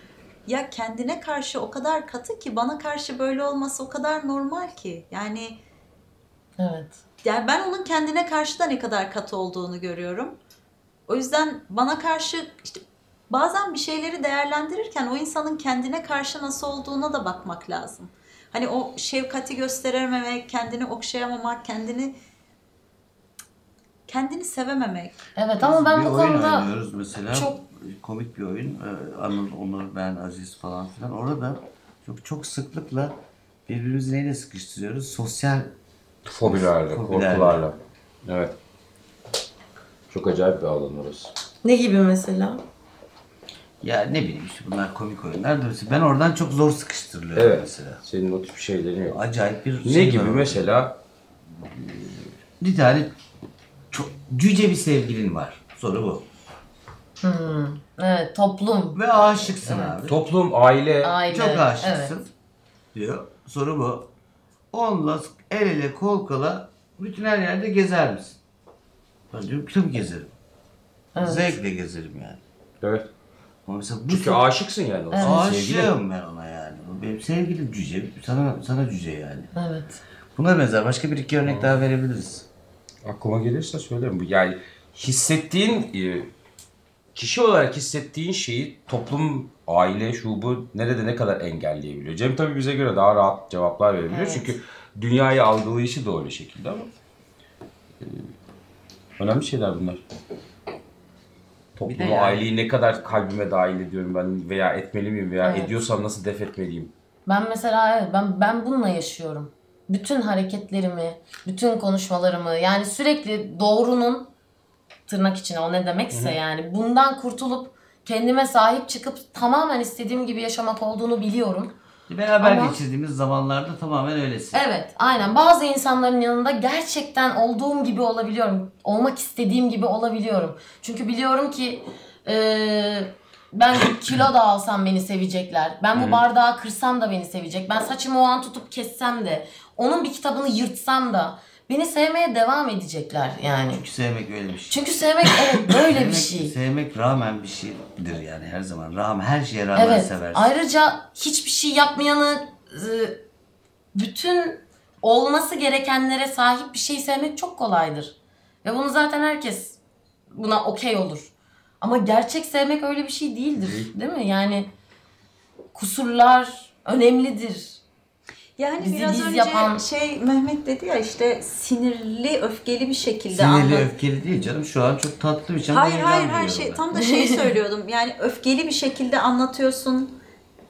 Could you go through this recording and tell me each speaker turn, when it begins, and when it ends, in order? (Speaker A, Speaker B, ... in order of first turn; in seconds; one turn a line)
Speaker A: 0.5-5.6
Speaker B: 6.6-7.0
Speaker A: 7.2-10.4
Speaker A: 11.1-22.2
Speaker A: 24.1-25.2
Speaker B: 25.4-26.7
Speaker C: 25.6-33.2
Speaker C: 33.7-35.7
Speaker D: 36.3-38.6
Speaker C: 36.4-37.6
Speaker D: 40.1-41.3
Speaker B: 41.6-42.6
Speaker C: 43.8-48.0
Speaker D: 47.4-49.2
Speaker C: 49.1-50.7
Speaker D: 49.8-51.0
Speaker D: 51.8-52.2
Speaker C: 52.6-53.1
Speaker C: 53.9-56.3
Speaker B: 57.2-59.0
Speaker C: 59.0-60.2
Speaker B: 59.6-60.0
Speaker D: 60.1-61.1
Speaker B: 61.0-62.1
Speaker C: 61.3-62.3
Speaker C: 63.0-64.1
Speaker C: 64.7-68.4
Speaker C: 69.3-70.3
Speaker B: 71.2-71.6
Speaker C: 71.2-72.4
Speaker D: 72.8-73.1
Speaker C: 73.7-74.5
Speaker D: 74.1-75.9
Speaker B: 75.1-75.5
Speaker C: 75.2-79.5
Speaker B: 79.5-80.0
Speaker C: 80.3-82.5
Speaker D: 81.5-81.8
Speaker D: 83.0-86.3
Speaker D: 87.2-96.9
Speaker B: 94.1-94.5
Speaker D: 99.2-100.0
Speaker D: 101.8-106.9
Speaker C: 101.9-102.4
Speaker B: 105.4-105.8
Speaker B: 107.3-114.3
Speaker B: 115.1-121.7
Speaker C: 122.1-124.6
Speaker B: 122.4-122.8
Speaker B: 124.5-143.8
Speaker C: 143.7-144.8
Speaker B: 144.7-146.6
Speaker C: 145.8-150.5
Speaker B: 149.8-153.2
Speaker B: 153.9-159.8
Speaker B: 160.3-164.7
Speaker B: 165.7-167.8
Speaker A: 168.6-173.9
Speaker B: 168.8-169.8
Speaker C: 173.3-176.8
Speaker A: 175.7-180.2
Speaker B: 176.9-177.3